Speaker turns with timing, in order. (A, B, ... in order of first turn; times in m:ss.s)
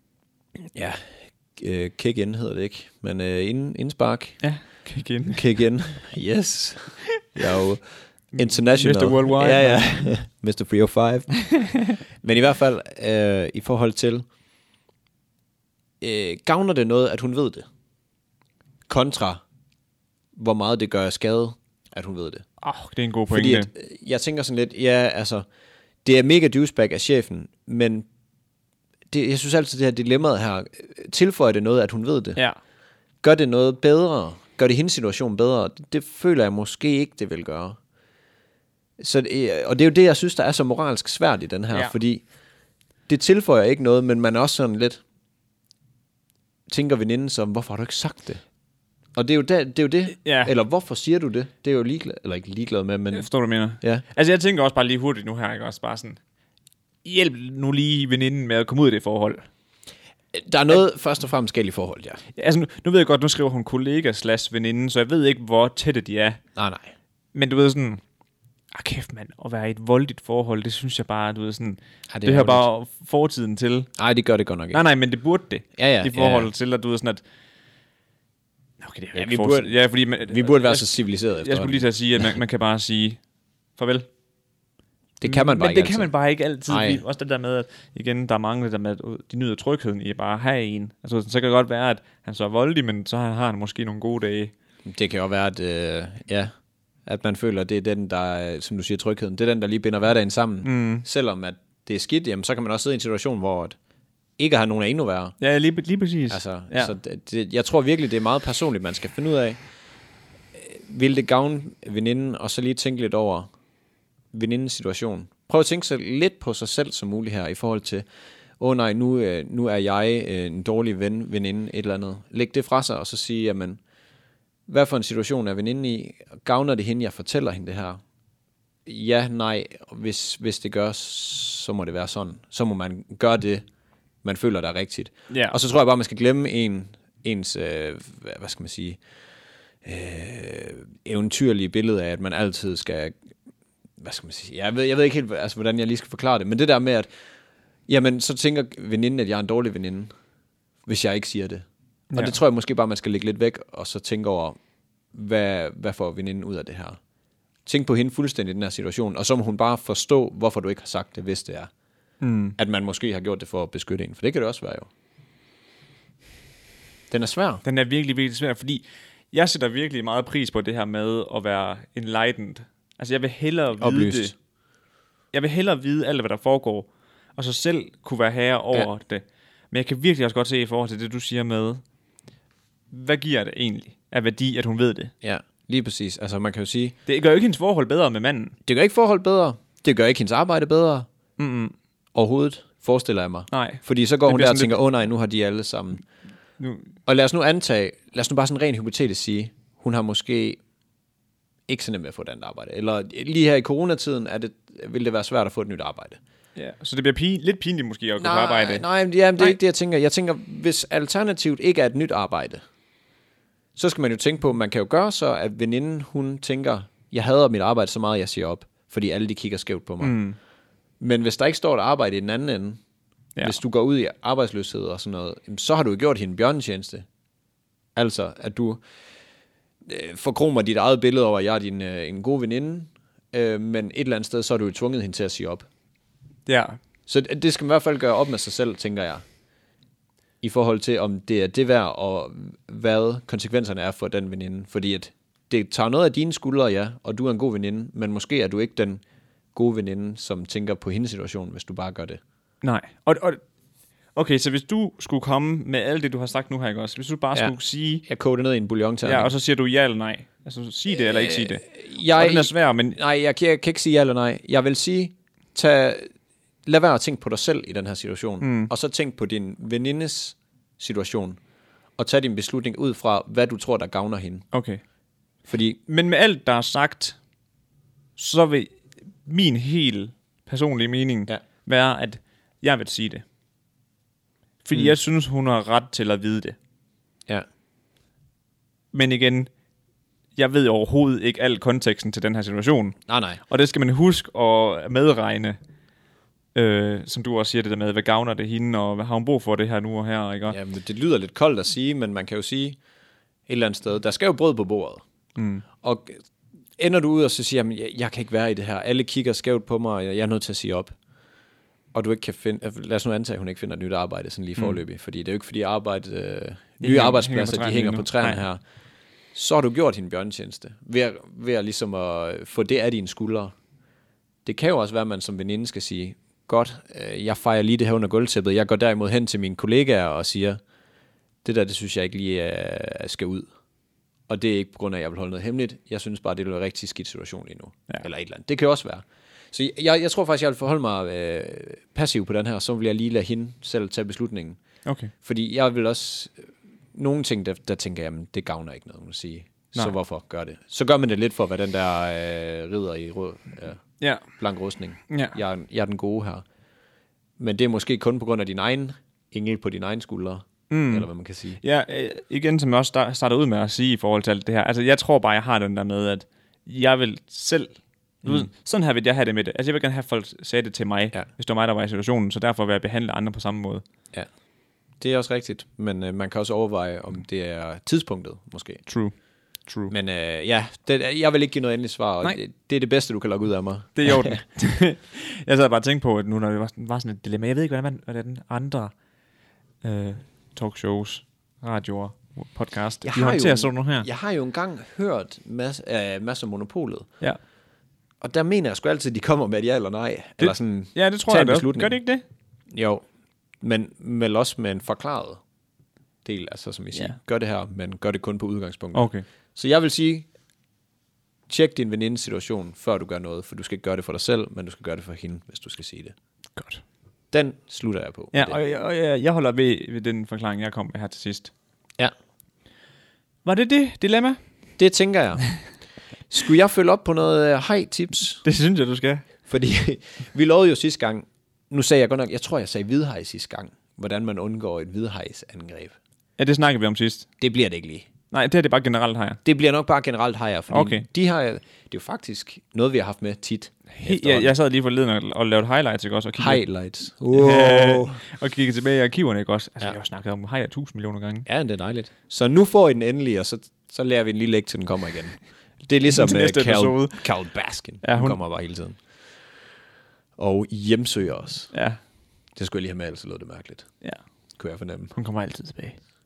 0:00.7-0:04.4 A
0:04.4-0:05.4 B
0:05.3-0:11.5 A
0:08.3-0:09.9 B
0:12.1-0:14.2 A
0:16.0-0:17.6 A
0:18.9-0:19.4 A
0:20.4-0:22.4 A
0:22.6-0:23.7 B
0:23.3-0:25.4 A
0:26.0-0:28.0 A
0:29.1-0:32.4 A
0:33.2-0:37.8 A
0:39.0-0:42.2 A
0:43.1-0:45.0 A
0:46.7-0:48.4 A
0:49.1-0:53.3 A
0:50.2-0:50.5 B
0:53.1-0:56.2 B
0:57.0-0:59.4 B
1:00.3-1:02.2 A
1:02.4-1:06.4 B
1:06.6-1:06.9 A
1:07.3-1:08.0 B
1:08.7-1:13.9 B
1:12.1-1:12.7 A
1:14.0-1:14.8 A
1:14.7-1:17.2 B
1:15.8-1:16.5 A
1:18.8-1:23.2 B
1:19.1-1:21.8 A
1:23.8-1:24.1 B
1:25.2-1:26.1 A
1:25.2-1:34.5 B
1:26.7-1:27.0 A
1:34.8-1:36.5 A
1:37.0-1:43.8 A
1:40.6-1:41.0 B
1:44.4-1:45.4 A
1:45.4-1:46.9 B
1:46.3-1:49.6 A
1:50.5-1:53.5 A
1:54.3-1:58.0 A
1:58.6-2:03.8 A
2:04.7-2:08.0 A
2:08.8-2:13.6 A
2:14.2-2:19.0 A
2:15.3-2:15.6 B
2:19.8-2:23.2 A
2:24.0-2:27.1 A
2:27.9-2:30.1 A
2:30.8-2:34.6 A
2:32.1-2:32.4 B
2:35.1-2:37.0 A
2:37.6-2:41.7 A
2:42.2-2:42.6 B
2:42.6-2:44.9 A
2:47.1-2:47.6 A
2:47.6-2:54.3 B
2:53.8-2:54.3 A
2:55.3-3:01.8 B
3:02.9-3:05.1 B
3:05.2-3:06.9 A
3:07.0-3:08.5 B
3:08.6-3:11.1 A
3:11.4-3:11.7 B
3:12.1-3:16.0 A
3:13.5-3:14.8 B
3:16.6-3:16.9 B
3:17.0-3:20.6 A
3:21.7-3:26.2 A
3:26.6-3:28.8 B
3:28.2-3:32.6 A
3:33.8-3:40.2 A
3:40.0-3:40.4 B
3:41.0-3:42.8 A
3:43.4-3:47.0 A
3:48.0-3:48.8 A
3:49.8-3:55.6 A
3:56.5-3:56.8 B
3:57.1-3:59.2 A
4:00.4-4:09.0 A
4:09.5-4:12.2 A
4:12.6-4:13.4 B
4:14.1-4:18.0 B
4:17.3-4:19.3 A
4:19.0-4:23.0 B
4:20.9-4:26.1 A
4:26.6-4:31.4 A
4:28.4-4:28.7 B
4:32.0-4:34.4 A
4:34.5-4:34.8 B
4:35.5-4:35.8 A
4:35.9-4:37.2 B
4:38.2-4:43.2 B
4:44.6-4:46.6 B
4:48.9-4:49.5 B
4:50.4-4:53.0 B
4:53.1-4:53.4 A
4:53.5-4:55.6 B
4:56.5-5:00.6 B
5:00.5-5:02.8 A
5:03.5-5:05.0 A
5:05.4-5:05.6 B
5:05.8-5:06.2 A
5:06.8-5:10.9 A
5:11.9-5:18.6 A
5:16.8-5:18.4 B
5:19.3-5:23.5 A
5:24.4-5:30.6 A
5:31.4-5:33.5 A
5:34.3-5:44.6 A
5:44.8-5:45.1 B
5:45.2-5:46.4 A
5:46.9-5:56.4 A
5:55.1-5:55.4 B
5:57.4-6:01.6 A
6:00.7-6:01.1 B
6:01.6-6:13.8 B
6:08.2-6:08.5 A
6:15.0-6:18.8 A
6:18.8-6:19.1 B
6:19.7-6:19.9 B
6:19.9-6:24.4 A
6:24.0-6:28.9 B
6:29.8-6:34.1 B
6:33.0-6:37.1 A
6:38.2-6:42.0 A
6:40.4-6:42.2 B
6:42.7-6:43.0 A
6:43.6-6:45.4 A
6:46.2-6:50.3 A
6:48.9-6:49.2 B
6:51.5-6:56.1 A
6:56.6-6:56.8 B
6:57.3-6:58.6 A
6:58.3-7:01.5 B
7:03.4-7:04.4 B
7:04.8-7:05.4 A
7:06.3-7:08.4 A
7:08.4-7:09.2 B
7:09.5-7:16.0 A
7:16.4-7:17.3 B
7:17.4-7:18.1 A
7:18.3-7:19.4 B
7:19.4-7:24.5 A
7:20.7-7:21.0 B
7:23.9-7:26.6 B
7:26.4-7:28.2 A
7:27.3-7:31.4 B
7:31.4-7:39.0 A
7:36.1-7:37.2 B
7:38.0-7:38.4 B
7:40.4-7:41.7 A
7:41.7-7:42.0 B
7:42.6-7:43.9 A
7:44.6-7:45.1 A
7:45.1-7:46.0 B